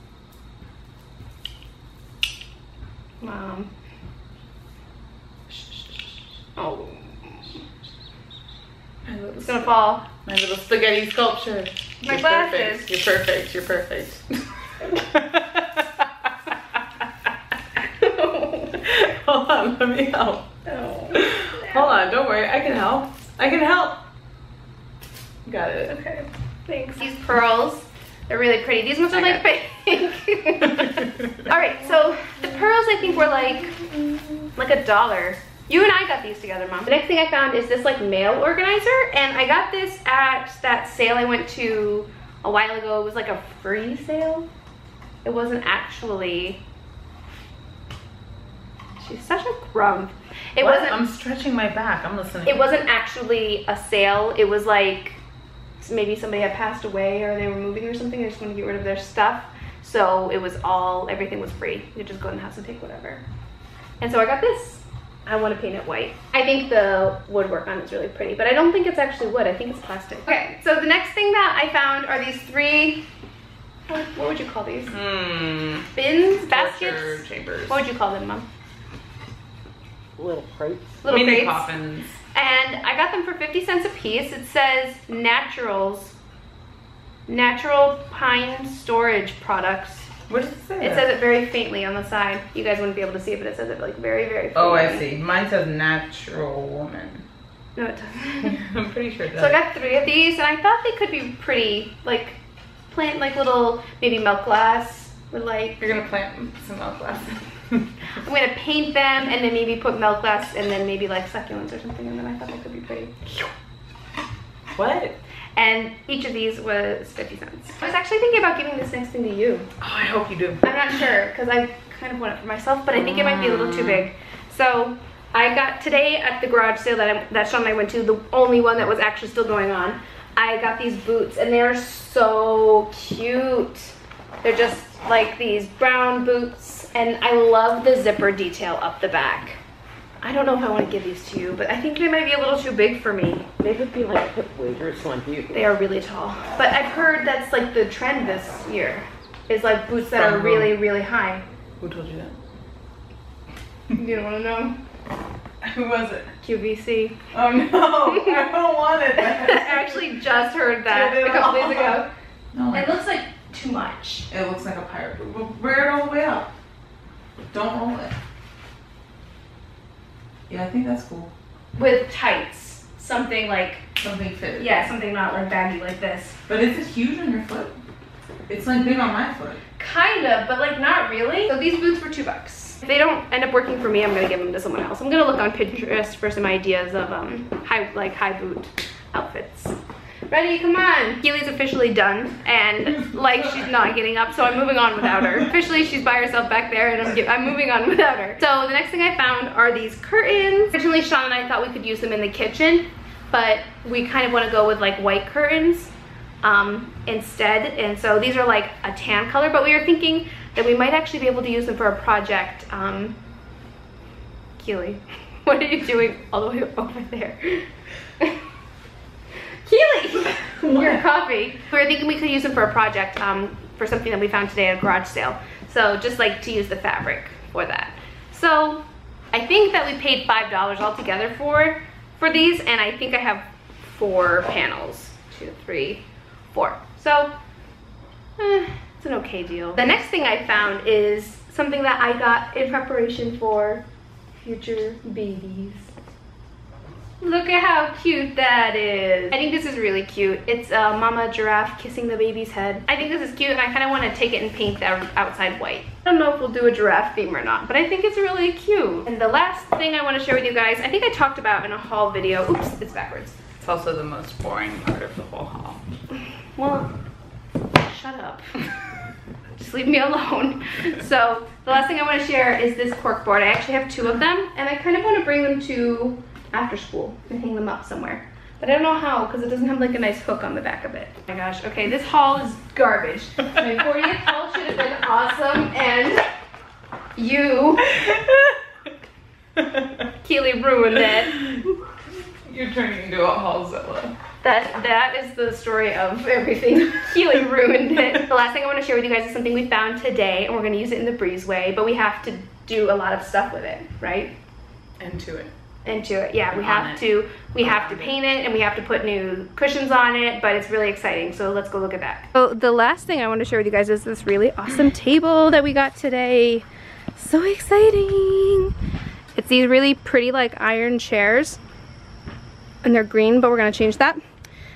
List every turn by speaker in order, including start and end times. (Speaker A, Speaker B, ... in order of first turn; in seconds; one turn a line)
Speaker A: 3.2-3.7
Speaker A: 6.5-7.6
Speaker B: 9.1-14.2
Speaker A: 9.4-10.1
Speaker A: 12.0-12.9
Speaker B: 14.8-16.1
Speaker A: 17.8-18.8
Speaker B: 18.7-20.4
Speaker A: 20.6-22.0
Speaker B: 21.1-24.0
Speaker B: 25.4-26.3
Speaker A: 26.7-33.8
Speaker B: 29.1-29.4
Speaker A: 34.5-44.5
Speaker A: 45.2-46.6
Speaker A: 49.0-51.0
Speaker B: 50.6-52.6
Speaker A: 52.5-55.2
Speaker A: 55.8-63.2
Speaker A: 64.0-73.0
Speaker A: 73.9-74.9
Speaker B: 74.9-77.8
Speaker A: 75.9-78.5
Speaker C: 80.2-81.0
Speaker A: 81.0-81.7
Speaker B: 81.1-82.2
Speaker A: 82.3-86.2
Speaker A: 87.3-90.1
Speaker B: 90.3-91.0
Speaker A: 90.8-95.1
Speaker B: 94.5-97.2
Speaker A: 97.8-98.6
Speaker B: 98.4-99.5
Speaker A: 99.3-102.4
Speaker A: 102.9-106.0
Speaker B: 105.8-107.9
Speaker A: 108.2-113.3
Speaker B: 114.7-115.2
Speaker A: 115.5-119.7
Speaker B: 119.8-120.6
Speaker A: 120.6-139.6
Speaker B: 122.9-124.0
Speaker A: 140.2-143.5
Speaker C: 143.6-145.5
Speaker A: 145.5-151.4
Speaker B: 150.1-150.7
Speaker B: 151.8-152.3
Speaker A: 153.9-154.8
Speaker B: 155.6-156.3
Speaker A: 156.4-157.2
Speaker B: 157.3-160.1
Speaker A: 158.0-158.5
Speaker A: 159.2-162.1
Speaker B: 160.9-162.9
Speaker A: 162.7-164.3
Speaker B: 164.3-166.5
Speaker B: 167.5-168.1
Speaker B: 170.5-171.3
Speaker A: 171.7-173.8
Speaker B: 173.9-174.8
Speaker A: 174.6-176.4
Speaker B: 176.5-177.8
Speaker B: 178.5-179.6
Speaker A: 179.8-189.8
Speaker A: 190.3-213.1
Speaker A: 214.6-217.7
Speaker A: 219.7-237.3
Speaker B: 220.6-221.0
Speaker A: 238.4-243.8
Speaker A: 244.4-245.9
Speaker A: 247.2-263.4
Speaker B: 263.6-265.8
Speaker A: 266.6-266.9
Speaker A: 267.8-268.4
Speaker A: 269.6-286.3
Speaker A: 287.1-288.0
Speaker A: 290.2-291.5
Speaker B: 292.5-294.1
Speaker A: 294.4-304.3
Speaker B: 305.0-305.5
Speaker A: 305.8-318.7
Speaker B: 306.5-307.0
Speaker B: 307.6-308.1
Speaker A: 319.3-321.6
Speaker A: 322.8-324.2